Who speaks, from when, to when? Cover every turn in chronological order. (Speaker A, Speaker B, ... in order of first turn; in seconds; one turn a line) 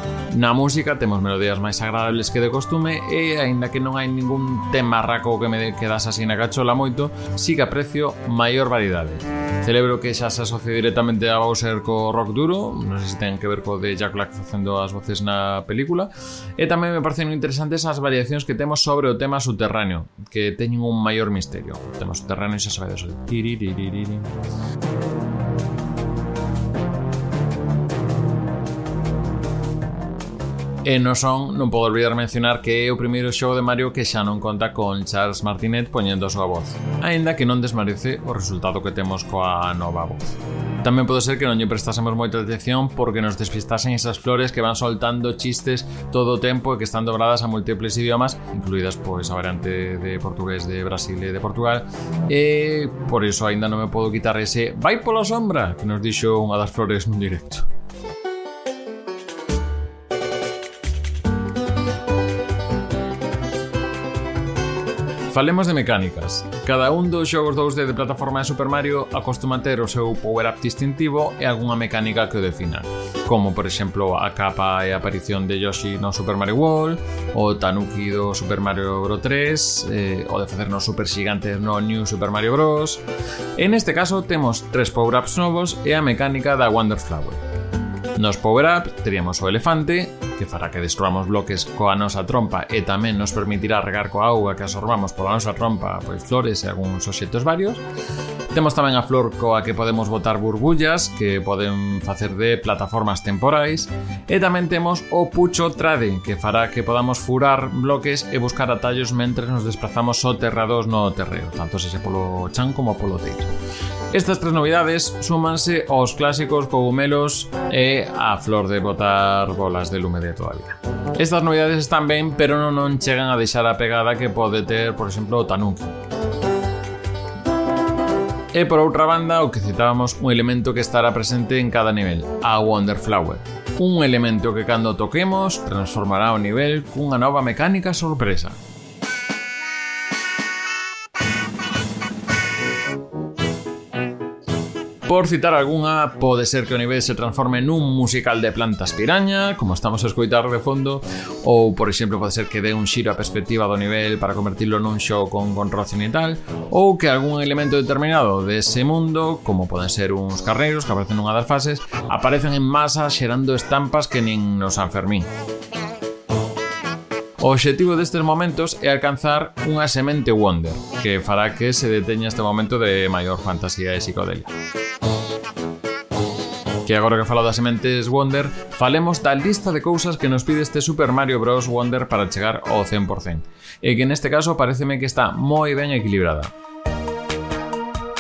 Speaker A: 0.3-24.3
Speaker A: 30.8-57.7
Speaker A: 65.3-83.0
Speaker A: 83.6-87.4
Speaker A: 88.2-97.8
Speaker A: 98.5-113.5
Speaker A: 114.1-126.0
Speaker A: 128.5-138.6
Speaker A: 145.1-165.3
Speaker A: 167.4-174.5
Speaker A: 176.8-186.5